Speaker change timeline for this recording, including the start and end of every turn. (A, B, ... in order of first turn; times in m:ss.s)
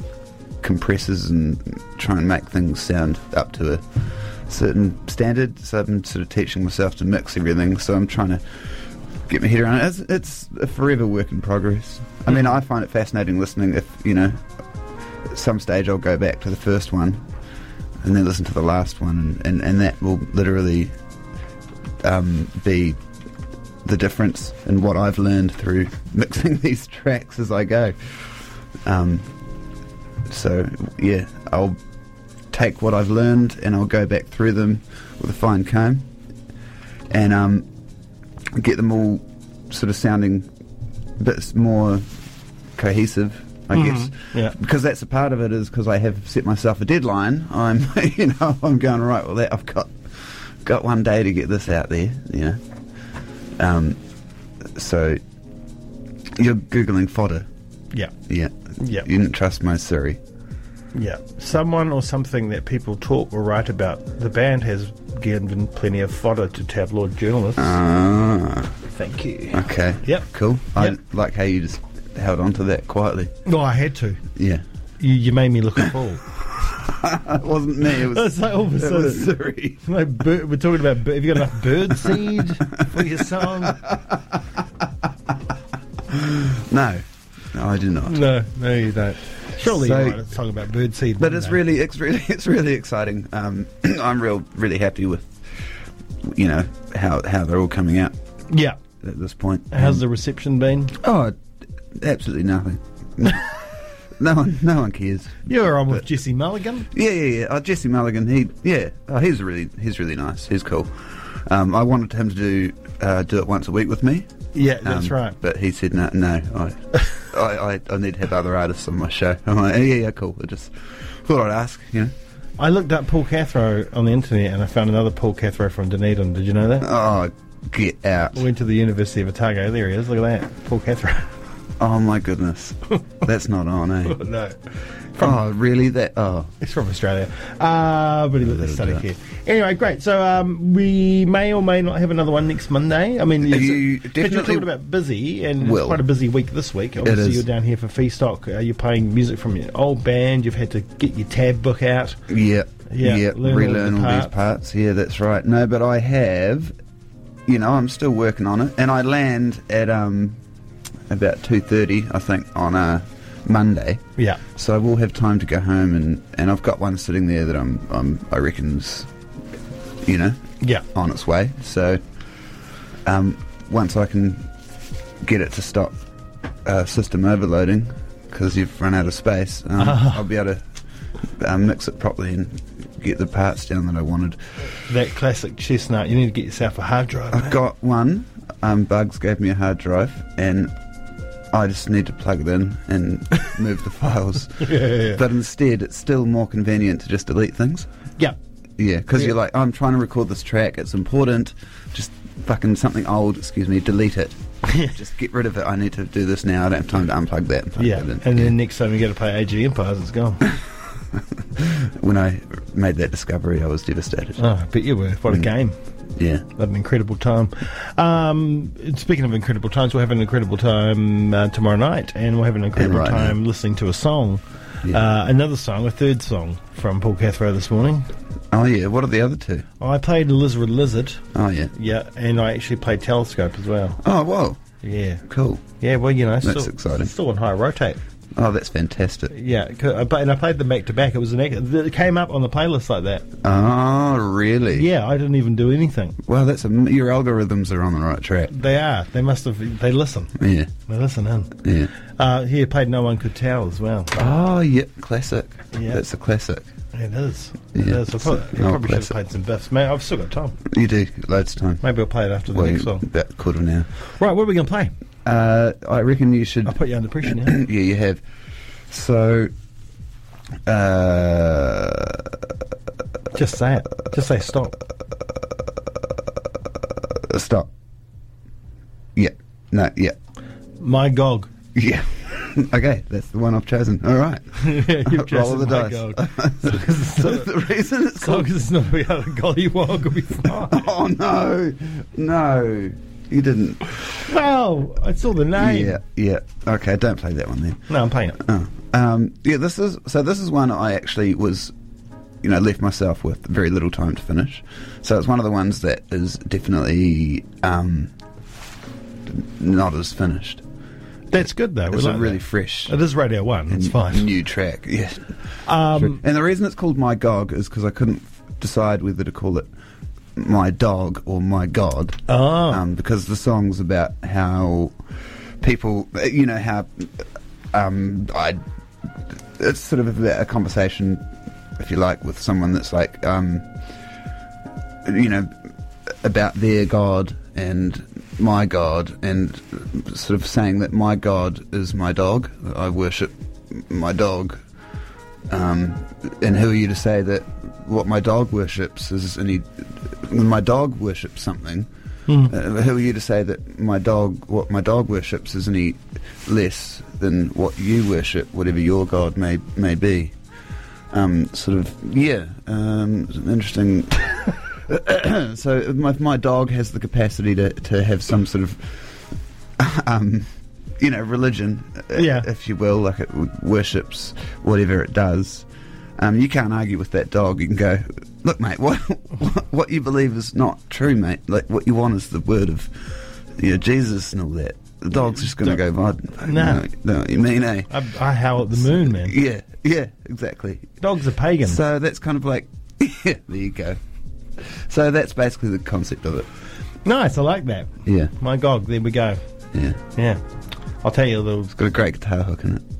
0:00.6-0:08.4 A
0:09.3-0:14.4 A
0:15.3-0:17.2 A
0:18.0-0:20.9 A
0:22.0-0:23.0 A
0:23.8-0:29.3 A
0:30.3-0:31.8 A
0:32.5-0:36.1 A
0:37.1-0:37.7 A
0:38.6-0:40.5 A
0:41.2-0:42.0 A
0:42.8-0:49.9 A
0:43.7-0:44.6 B
0:50.6-0:52.6 A
0:53.6-0:54.0 A
0:54.7-0:55.2 A
0:56.4-0:57.5 A
0:58.3-1:00.2 A
0:58.8-0:59.1 B
1:00.9-1:07.8 B
1:07.6-1:08.7 A
1:08.9-1:11.0 B
1:09.5-1:13.3 A
1:13.4-1:14.2 B
1:14.4-1:14.6 A
1:15.0-1:16.2 B
1:16.7-1:19.8 A
1:17.8-1:23.9 B
1:26.1-1:28.2 A
1:28.1-1:31.6 B
1:29.6-1:30.3 A
1:31.2-1:35.4 A
1:36.2-1:38.1 A
1:38.5-1:38.8 B
1:39.0-1:40.0 A
1:39.7-1:41.0 B
1:40.9-1:41.3 A
1:42.0-1:46.0 A
1:45.5-1:46.9 B
1:46.9-1:54.3 A
1:54.5-1:55.4 B
1:54.8-2:02.1 A
2:02.6-2:06.9 B
2:06.8-2:08.4 A
2:08.3-2:11.3 B
2:11.8-2:14.2 A
2:14.0-2:15.4 B
2:15.2-2:16.5 A
2:16.6-2:32.2 B
2:18.4-2:19.1 A
2:23.4-2:24.7 A
2:25.6-2:26.0 A
2:27.0-2:27.5 A
2:32.3-2:36.7 A
2:32.9-2:34.3 B
2:37.4-2:40.4 A
2:41.1-2:44.0 A
2:44.2-2:44.4 B
2:44.5-2:49.1 A
2:50.0-2:50.4 A
2:50.9-2:52.0 A
2:53.0-2:54.5 A
2:55.2-2:56.0 A
2:56.6-3:00.6 A
2:59.8-3:00.2 B
3:01.4-3:04.4 A
3:04.8-3:07.6 B
3:07.3-3:10.7 A
3:11.5-3:17.9 A
3:14.6-3:15.2 B
3:18.8-3:28.5 A
3:27.8-3:30.5 B
3:31.6-3:34.4 A
3:34.4-3:35.8 B
3:36.2-3:36.4 A
3:36.4-3:48.1 B
3:42.8-3:43.4 A
3:48.5-3:49.6 A
3:49.8-3:54.0 B
3:51.3-3:51.7 A
3:54.0-3:54.6 A
3:54.8-3:55.2 B
3:55.3-3:55.6 A
3:55.8-3:58.0 B
3:56.4-3:57.1 A
3:58.4-3:59.3 A
3:59.3-4:03.2 B
4:03.4-4:04.9 A
4:04.7-4:06.2 B
4:06.2-4:08.5 A
4:08.5-4:11.6 B
4:10.4-4:10.7 A
4:11.6-4:11.9 A
4:12.2-4:14.3 B
4:14.1-4:16.7 A
4:15.7-4:16.0 B
4:16.9-4:20.6 B
4:17.7-4:19.2 A
4:20.7-4:21.8 A
4:21.8-4:23.0 B
4:22.5-4:23.9 A
4:24.2-4:24.9 B
4:25.2-4:28.2 A
4:26.6-4:27.6 B
4:28.9-4:29.5 A
4:30.7-4:32.3 A
4:33.3-4:34.8 B
4:37.2-4:37.7 A
4:39.2-4:40.2 A
4:40.8-4:41.5 B
4:41.7-4:48.5 A
4:44.5-4:47.5 B
4:48.1-4:50.9 B
4:50.5-4:54.2 A
4:54.2-4:56.0 B
4:55.5-4:57.8 A
4:57.9-4:58.4 B
4:58.4-5:01.7 A
5:02.4-5:08.1 A
5:09.3-5:10.6 A
5:11.3-5:14.3 B
5:11.9-5:13.0 A
5:13.7-5:15.3 A
5:15.6-5:16.2 B
5:15.9-5:19.7 A
5:20.4-5:24.9 A
5:22.3-5:22.8 B
5:25.6-5:28.6 A
5:29.6-5:31.2 A
5:31.8-5:33.7 A
5:35.0-5:35.5 A
5:36.2-5:44.6 A
5:45.5-5:51.9 A
5:52.3-5:52.6 B
5:52.5-6:00.3 A
6:01.1-6:09.2 A
6:09.8-6:10.5 A
6:11.0-6:15.6 A
6:12.1-6:12.5 B
6:16.2-6:22.9 A
6:23.6-6:27.9 A
6:25.3-6:25.8 B
6:26.4-6:26.8 B
6:27.9-6:29.4 B
6:28.7-6:30.9 A
6:31.0-6:31.8 B
6:31.6-6:34.0 A
6:34.6-6:36.5 A
6:37.0-6:39.4 B
6:38.0-6:38.3 A
6:39.7-6:40.0 A
6:40.1-6:40.4 B
6:41.0-6:41.8 B
6:41.7-6:42.8 A